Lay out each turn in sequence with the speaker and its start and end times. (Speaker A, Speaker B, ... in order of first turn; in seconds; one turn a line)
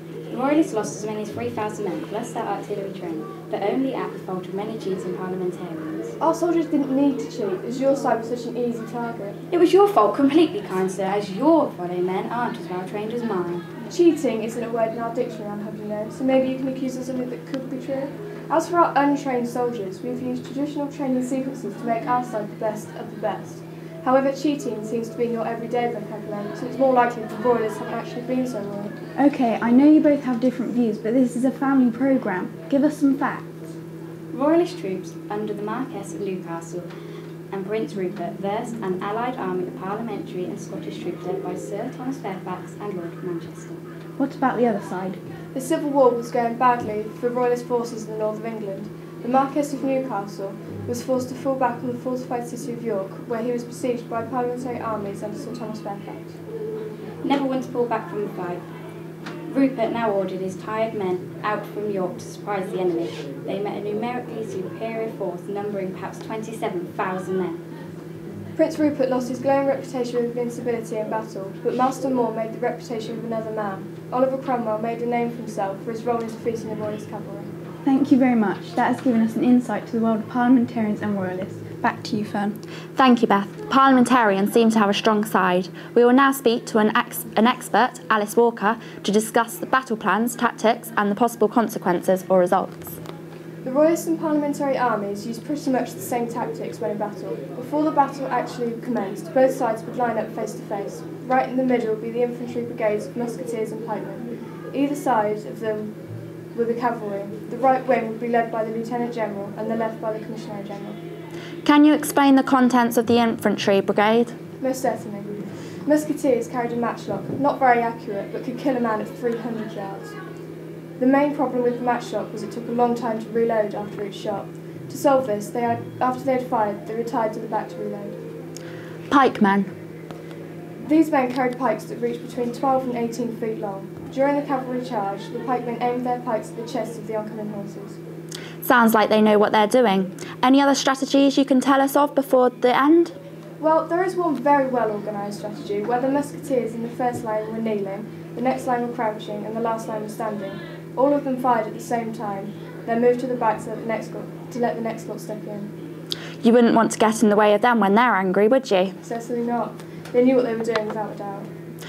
Speaker A: 0.3-6.1
Speaker B: 6.2-9.4
Speaker A: 9.5-13.7
Speaker B: 13.9-28.9
Speaker C: 29.1-33.6
Speaker A: 34.3-36.9
Speaker A: 37.5-43.8
Speaker C: 44.2-45.2
Speaker B: 45.5-56.3
Speaker A: 57.2-58.6
Speaker A: 59.5-67.6
Speaker B: 68.5-77.5
Speaker C: 77.8-82.6
Speaker D: 83.0-93.0
Speaker B: 93.6-105.9
Speaker B: 106.5-111.0
Speaker D: 111.6-114.3
Speaker B: 114.6-120.1
Speaker B: 121.0-128.2
Speaker D: 129.1-129.7
Speaker B: 130.8-138.0
Speaker D: 138.6-143.1
Speaker B: 143.6-155.7
Speaker D: 156.4-158.9
Speaker B: 159.0-161.5